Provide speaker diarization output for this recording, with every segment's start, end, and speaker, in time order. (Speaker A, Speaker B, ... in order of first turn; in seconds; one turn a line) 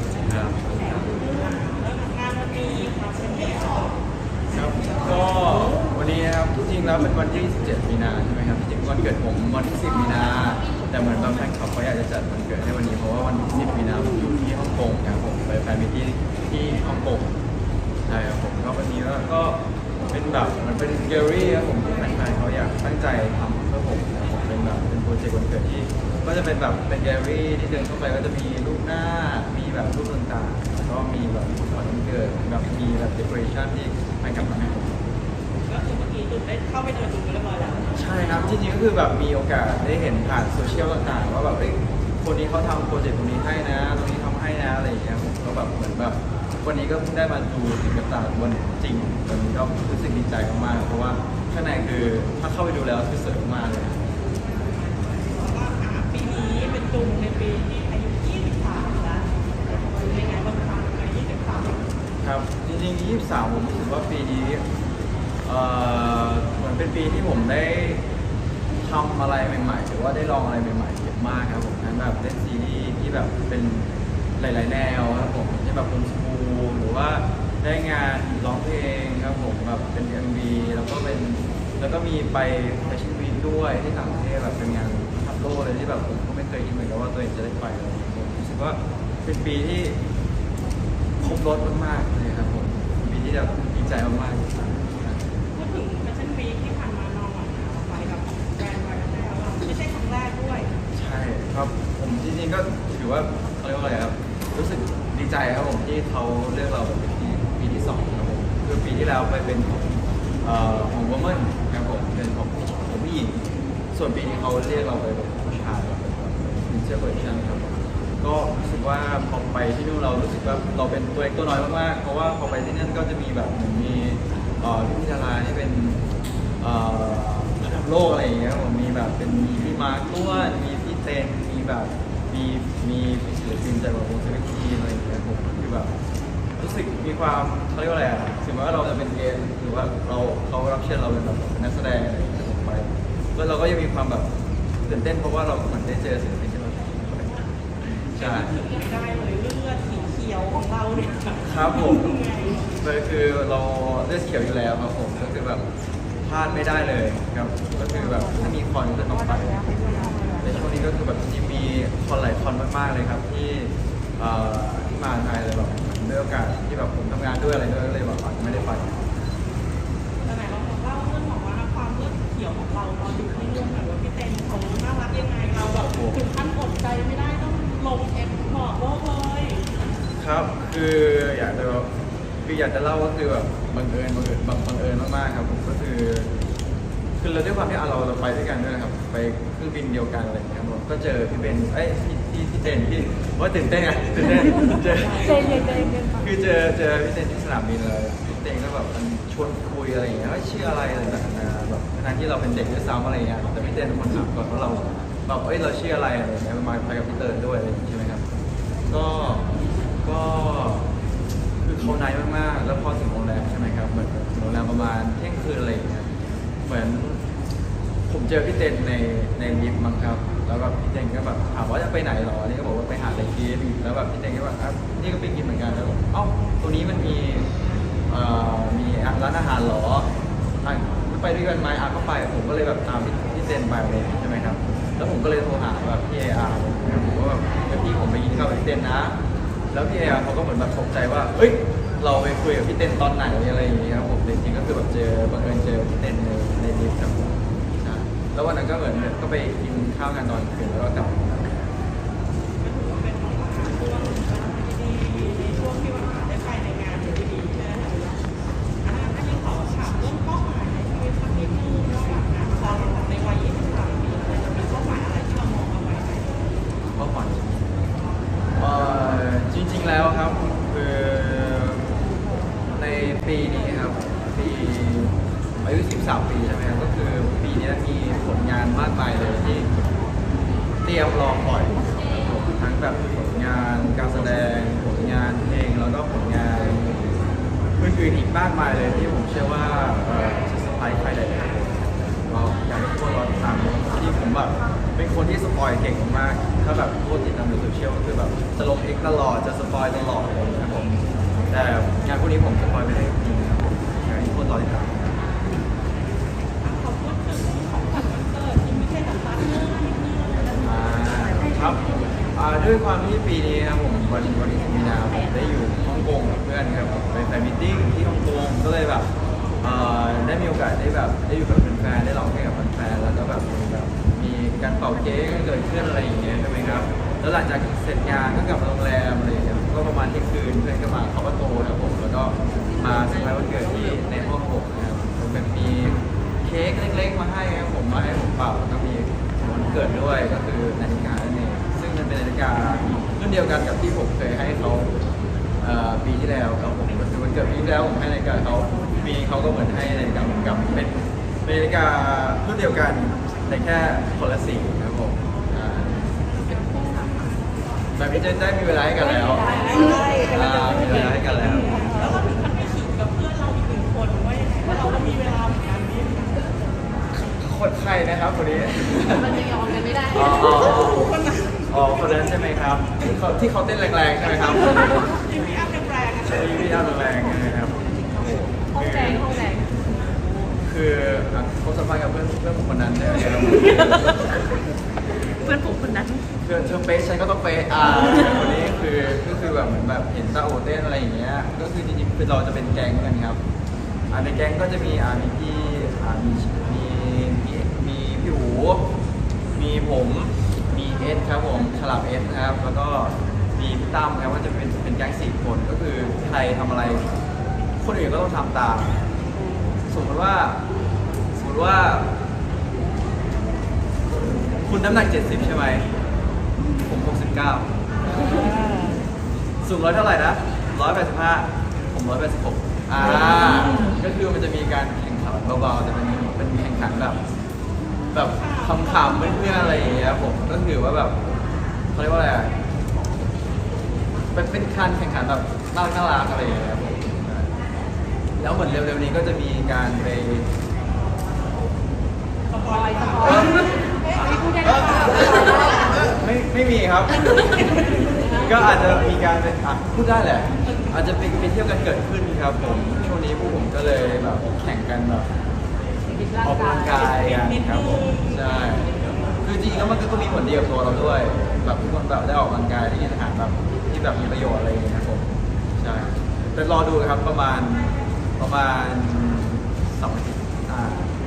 Speaker A: 0.2-0.7
Speaker B: 1.1-4.0
Speaker A: 4.5-17.4
Speaker A: 18.1-35.1
Speaker B: 35.7-38.0
Speaker A: 38.0-54.0
Speaker B: 54.6-61.9
Speaker A: 62.2-64.6
Speaker A: 65.4-68.0
Speaker A: 68.8-90.0
Speaker A: 91.2-95.2
Speaker B: 95.5-100.7
Speaker A: 101.0-113.4
Speaker A: 113.9-126.0
Speaker A: 126.6-135.9
Speaker A: 136.6-144.3
Speaker A: 144.8-147.4
Speaker A: 148.1-148.5
Speaker B: 148.2-152.7
Speaker A: 151.4-152.1
Speaker A: 152.8-155.6
Speaker A: 156.2-159.8
Speaker B: 159.8-160.4
Speaker A: 160.4-169.0
Speaker B: 170.2-179.7
Speaker A: 175.9-176.2
Speaker A: 180.2-181.9
Speaker A: 182.4-186.3
Speaker A: 187.2-208.2
Speaker A: 208.9-209.5
Speaker A: 210.0-210.9
Speaker A: 211.6-216.1
Speaker A: 216.6-217.2
Speaker A: 218.1-227.5
Speaker A: 228.1-230.1
Speaker A: 230.6-239.2
Speaker A: 239.7-251.7
Speaker B: 252.6-258.2
Speaker B: 258.8-266.4
Speaker A: 266.9-267.8
Speaker A: 268.6-272.0
Speaker A: 272.7-279.7
Speaker A: 280.8-287.2
Speaker A: 287.8-305.1
Speaker B: 306.6-310.6
Speaker A: 310.6-319.1
Speaker A: 319.6-344.9
Speaker A: 345.6-355.9
Speaker B: 356.4-357.3
Speaker A: 357.9-361.9
Speaker C: 359.4-360.1
Speaker B: 359.4-366.5
Speaker A: 367.1-375.2
Speaker C: 369.2-370.6
Speaker B: 370.4-371.7
Speaker B: 374.9-376.7
Speaker A: 376.2-379.4
Speaker C: 378.7-379.8
Speaker A: 380.6-384.3
Speaker C: 385.4-386.2
Speaker A: 386.4-393.4
Speaker A: 394.1-398.9
Speaker A: 399.6-407.1
Speaker A: 407.8-409.0
Speaker A: 409.9-410.6
Speaker A: 411.4-412.1
Speaker A: 414.6-415.9
Speaker A: 416.9-417.7
Speaker A: 419.6-427.2
Speaker A: 428.1-431.2
Speaker B: 428.4-430.0
Speaker A: 431.9-432.5
Speaker A: 434.3-437.5
Speaker A: 438.4-440.5
Speaker B: 442.5-446.0
Speaker C: 442.6-446.0
Speaker A: 445.8-447.6
Speaker B: 447.6-448.4
Speaker A: 448.3-455.3
Speaker C: 456.1-456.9
Speaker A: 456.4-471.1
Speaker B: 456.9-458.9